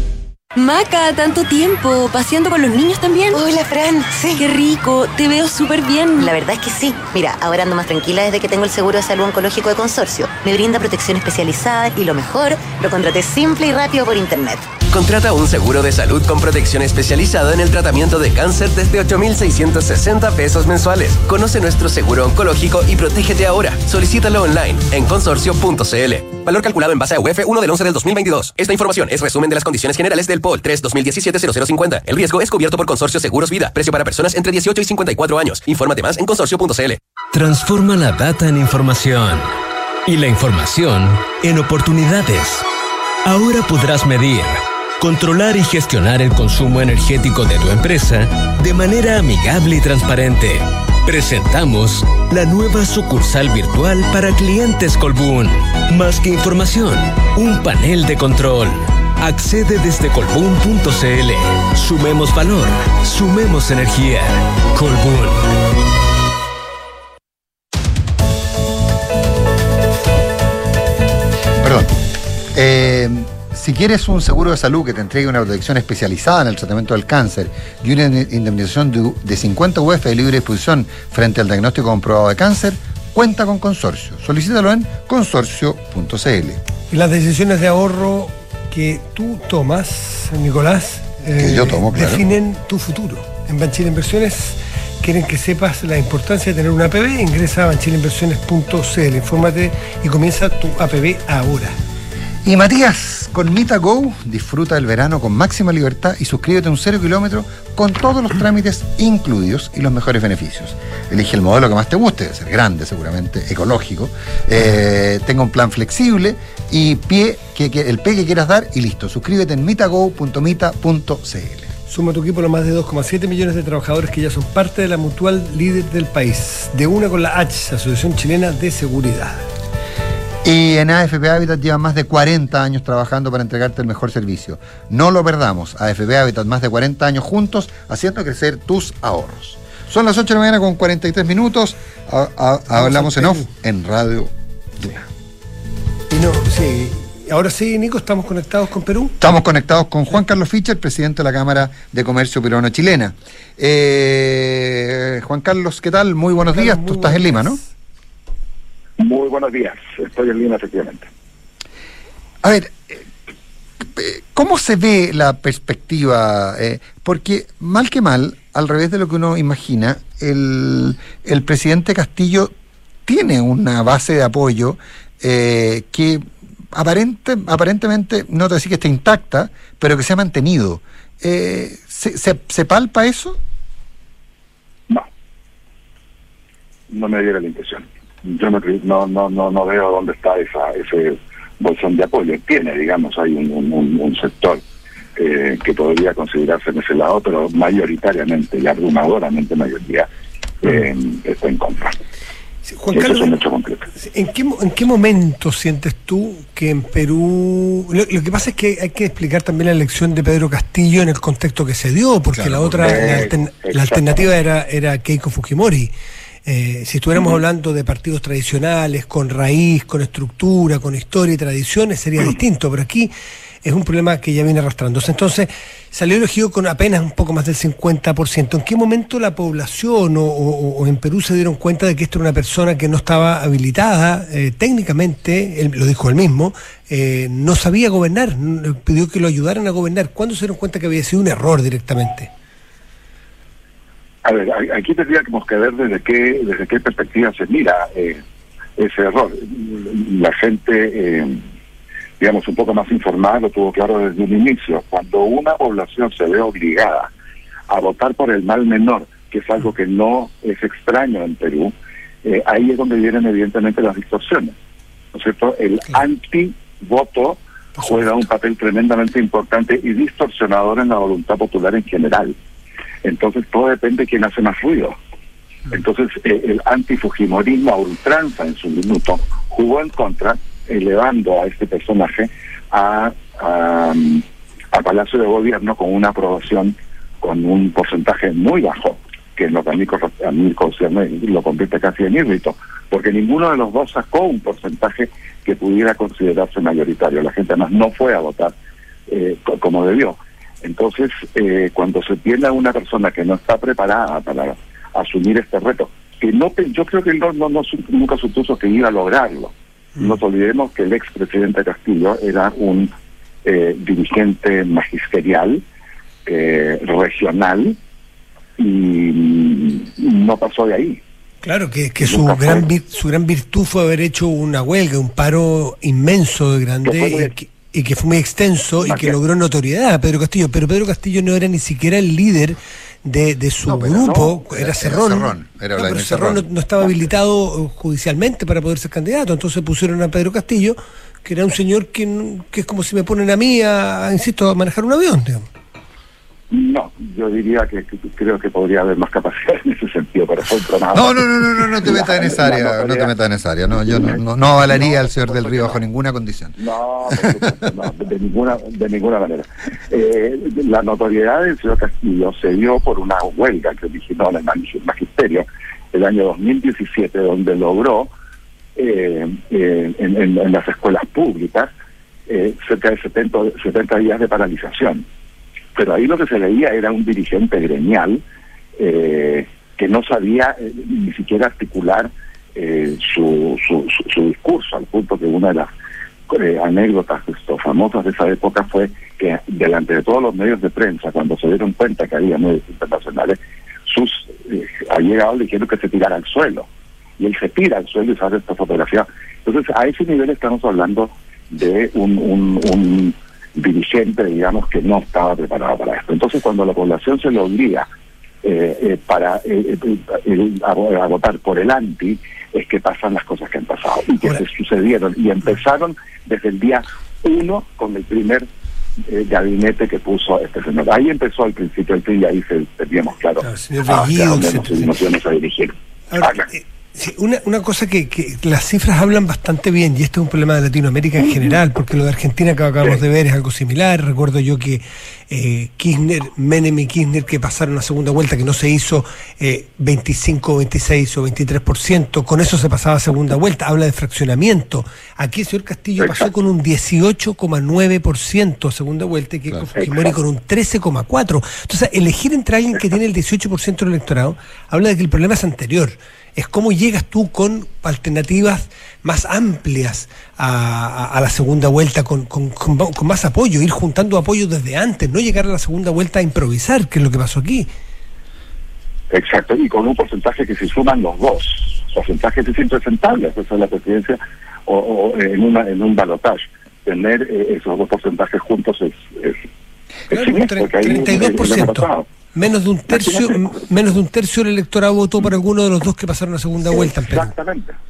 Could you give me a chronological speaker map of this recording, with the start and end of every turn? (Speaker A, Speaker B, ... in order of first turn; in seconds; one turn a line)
Speaker A: 0.6-3.4
Speaker B: 3.3-4.4
Speaker A: 4.4-6.3
Speaker B: 6.2-14.7
Speaker C: 14.9-37.0
Speaker D: 37.3-39.5
Speaker D: 40.0-42.6
Speaker D: 43.2-65.5
Speaker E: 71.6-72.0
Speaker E: 72.5-86.6
Speaker F: 86.9-101.8
Speaker E: 91.4-92.2
Speaker E: 102.4-121.7
Speaker F: 121.9-129.4
Speaker E: 130.4-145.0
Speaker F: 142.7-143.5
Speaker F: 146.1-149.3
Speaker E: 149.2-157.6
Speaker F: 156.5-157.7
Speaker G: 159.0-161.1
Speaker E: 162.4-163.1
Speaker E: 163.8-172.5
Speaker E: 173.1-183.4
Speaker G: 186.9-194.6
Speaker G: 195.2-200.1
Speaker G: 200.6-202.0
Speaker F: 202.7-203.4
Speaker G: 202.9-203.9
Speaker F: 203.9-215.9
Speaker E: 212.3-213.3
Speaker G: 212.8-214.2
Speaker F: 216.5-223.1
Speaker F: 223.6-242.3
Speaker G: 244.2-248.2
Speaker G: 248.8-251.4
Speaker G: 252.2-257.1
Speaker G: 257.7-264.5
Speaker G: 265.1-272.4
Speaker F: 267.8-268.1
Speaker G: 273.0-275.0
Speaker G: 275.7-298.6
Speaker G: 299.1-312.9
Speaker G: 313.4-315.6
Speaker G: 316.3-317.8
Speaker G: 318.6-321.0
Speaker F: 321.4-345.5
Speaker G: 322.0-322.7
Speaker G: 326.8-327.4
Speaker G: 328.8-329.2
Speaker G: 333.7-334.4
Speaker E: 334.4-336.9
Speaker G: 346.5-353.1
Speaker E: 350.9-356.6
Speaker G: 353.8-355.8
Speaker G: 356.6-368.1
Speaker G: 368.8-371.7
Speaker G: 372.3-375.1
Speaker G: 375.8-378.2
Speaker G: 378.8-385.7
Speaker G: 386.3-396.7
Speaker G: 397.2-407.9
Speaker G: 408.4-418.5
Speaker G: 419.1-426.5
Speaker F: 423.4-424.9
Speaker F: 426.1-467.7
Speaker G: 446.0-446.3
Speaker G: 449.8-450.1
Speaker G: 469.1-479.4
Speaker G: 480.1-482.1
Speaker F: 480.1-487.3
Speaker G: 482.9-483.6
Speaker G: 486.7-487.8